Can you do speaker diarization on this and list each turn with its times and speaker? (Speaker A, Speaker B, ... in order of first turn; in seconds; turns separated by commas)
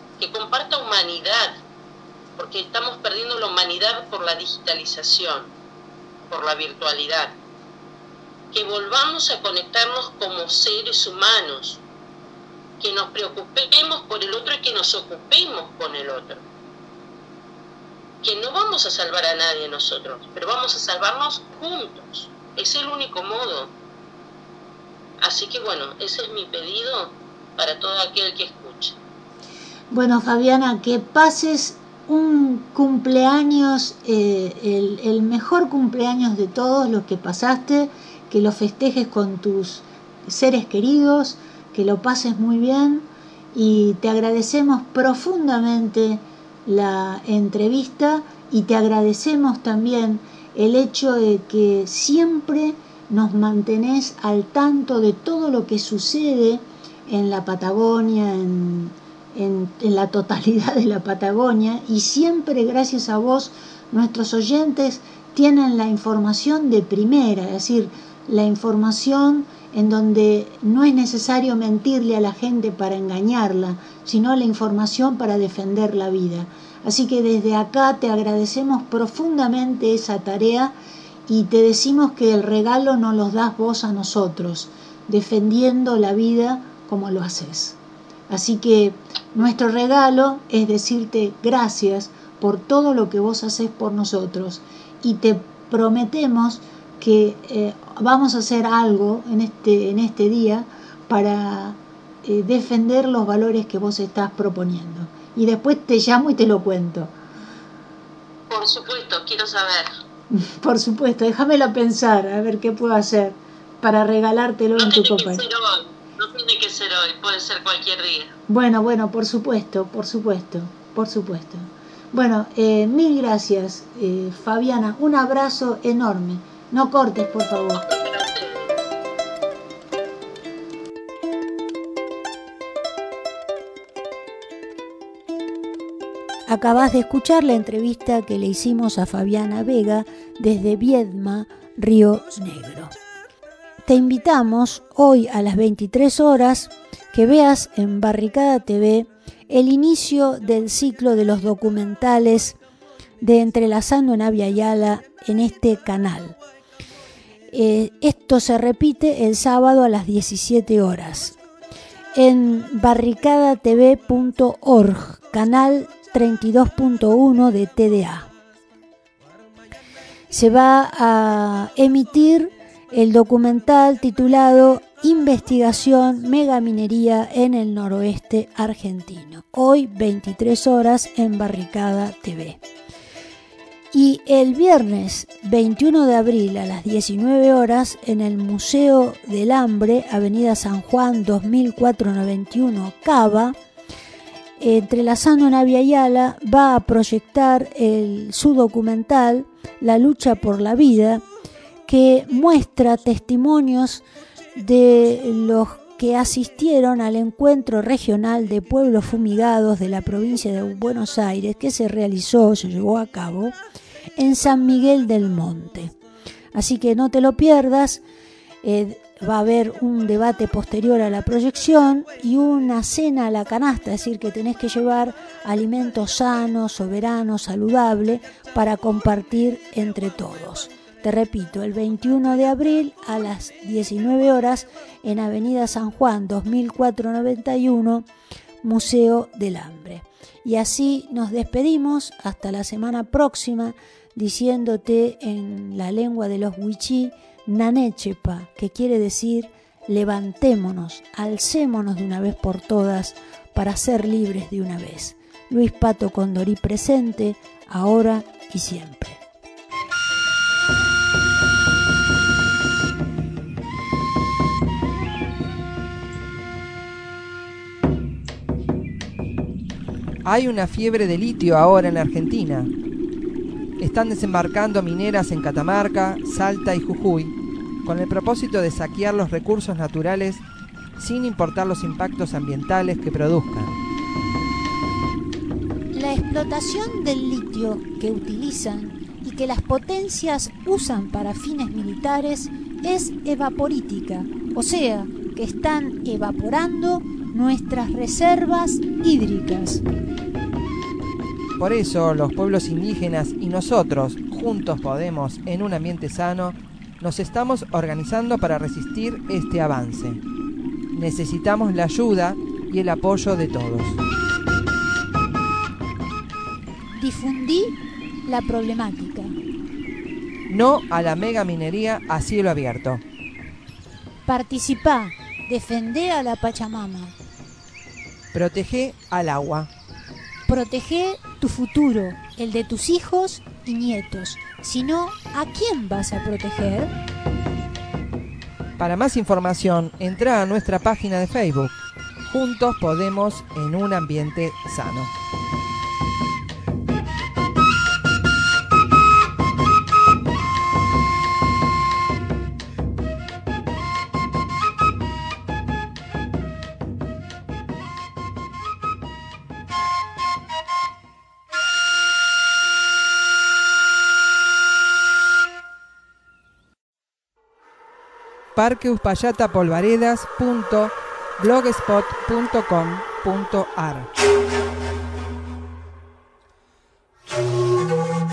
Speaker A: 0.2-1.6, Speaker A: 2.4-5.5, Speaker A: 6.3-7.3, Speaker A: 8.5-11.8, Speaker A: 12.8-16.4, Speaker A: 18.2-23.7, Speaker A: 25.2-29.0, Speaker B: 29.9-80.7, Speaker B: 81.3-87.8, Speaker B: 88.3-107.1, Speaker A: 108.5-109.9, Speaker B: 110.3-115.4, Speaker A: 114.8-118.3, Speaker B: 118.5-127.8, Speaker A: 127.7-128.8, Speaker B: 136.5-142.9, Speaker B: 143.8-152.6, Speaker B: 153.2-156.4, Speaker B: 157.5-161.4, Speaker B: 162.1-168.3, Speaker B: 170.3-182.6, Speaker B: 183.9-193.6, Speaker B: 194.6-201.2, Speaker B: 201.9-204.0, Speaker B: 204.5-213.6, Speaker B: 214.2-215.9, Speaker B: 216.5-218.0, Speaker B: 218.6-238.1, Speaker B: 238.6-259.2, Speaker C: 270.2-272.7, Speaker C: 273.8-280.4, Speaker C: 281.0-283.7, Speaker B: 285.9-299.8, Speaker C: 301.6-310.2, Speaker C: 310.9-314.0, Speaker B: 316.9-319.4, Speaker C: 320.5-323.0, Speaker B: 324.2-327.1, Speaker C: 328.3-329.7, Speaker B: 330.5-336.9, Speaker C: 338.8-341.7, Speaker C: 342.3-345.1, Speaker C: 368.5-374.1